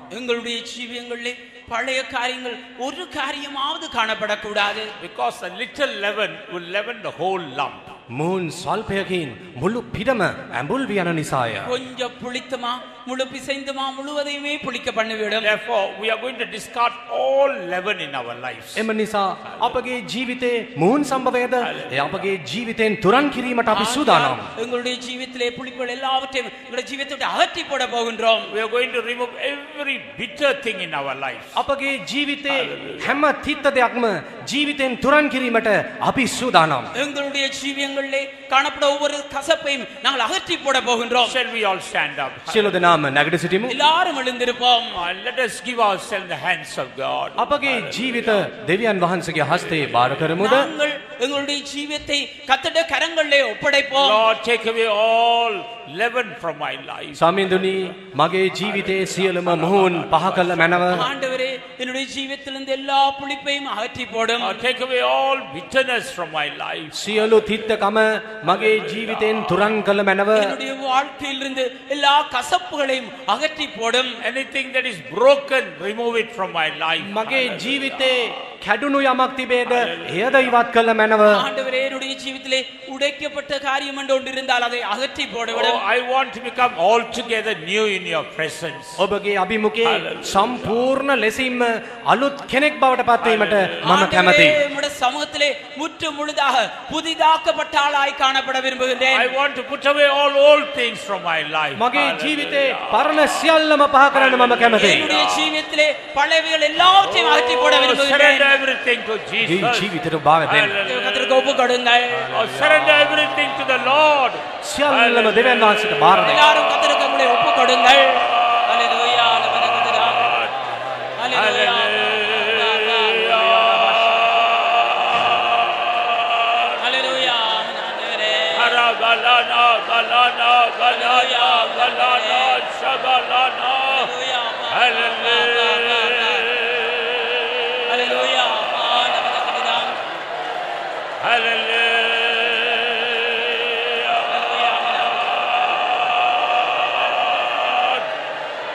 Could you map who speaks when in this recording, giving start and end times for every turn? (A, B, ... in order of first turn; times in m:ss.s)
0:00.1-0:04.9 A
0:05.0-0:08.0 B
0:08.1-0:11.8 C
0:11.6-0:15.5 A
0:15.4-0:18.8 B
0:18.8-0:24.5 C
0:19.5-0:19.8 B
0:21.6-0:22.3 B
0:23.7-0:28.5 A
0:28.5-0:31.6 B
0:31.6-0:36.9 C
0:32.5-0:33.2 B
0:37.0-0:41.4 A
0:41.3-0:43.0 B
0:42.5-0:43.8 C
0:43.7-0:45.0 A
0:45.0-0:48.5 B
0:47.4-0:50.7 C
0:49.6-0:50.0 B
0:50.4-0:54.2 A
0:53.9-0:57.7 B
0:57.2-1:01.0 C
0:58.6-1:01.1 B
1:00.9-1:04.6 A
1:04.4-1:07.4 B
1:06.9-1:10.6 C
1:08.5-1:09.7 B
1:10.3-1:14.2 A
1:14.2-1:18.1 B
1:17.0-1:21.4 C
1:19.7-1:20.5 B
1:21.3-1:25.8 A
1:25.5-1:29.0 B
1:29.0-1:34.6 C
1:29.8-1:30.9 B
1:33.2-1:33.8 B
1:33.8-1:39.3 A
1:39.1-1:43.3 B
1:41.8-1:45.1 C
1:44.1-1:45.5 B
1:44.8-1:48.6 A
1:47.0-1:51.2 B
1:49.4-1:50.8 C
1:50.8-1:52.5 A
1:52.2-1:56.3 B
1:54.6-1:56.4 C
1:56.2-2:00.4 A
2:00.2-2:07.3 B
2:01.2-2:04.6 A
2:06.8-2:08.8 A
2:08.6-2:14.1 B
2:10.9-2:12.7 A
2:13.9-2:16.5 A
2:14.7-2:16.8 B
2:17.7-2:18.3 B
2:17.9-2:20.0 A
2:21.2-2:24.3 B
2:24.2-2:25.4 A
2:27.4-2:28.0 B